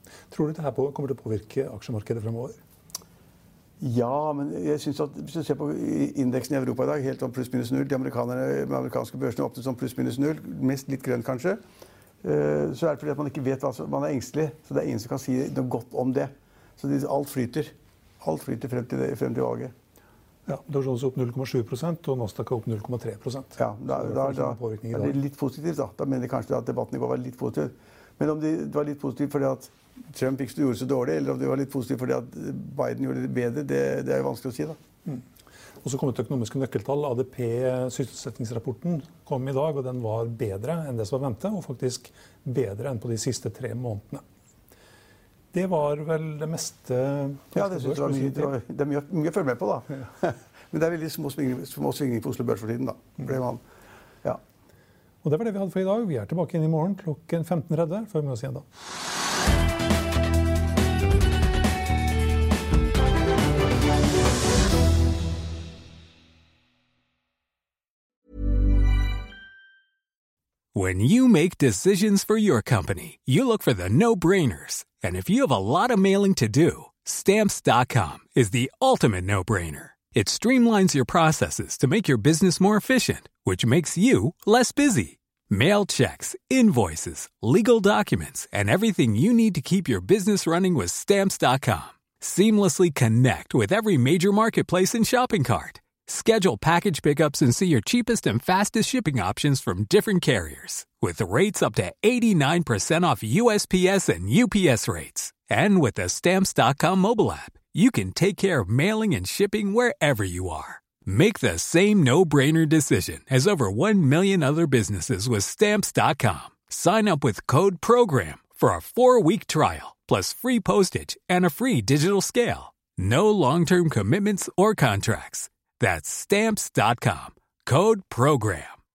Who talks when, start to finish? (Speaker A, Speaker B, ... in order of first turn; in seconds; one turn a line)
Speaker A: 0.3-2.6
Speaker B: 3.8-11.6
Speaker B: 12.2-19.7
Speaker A: 20.5-25.1
Speaker B: 23.6-34.8
Speaker A: 35.8-44.2
Speaker A: 45.5-48.5
Speaker B: 47.5-53.6
Speaker A: 55.2-58.6
Speaker C: 70.7-128.7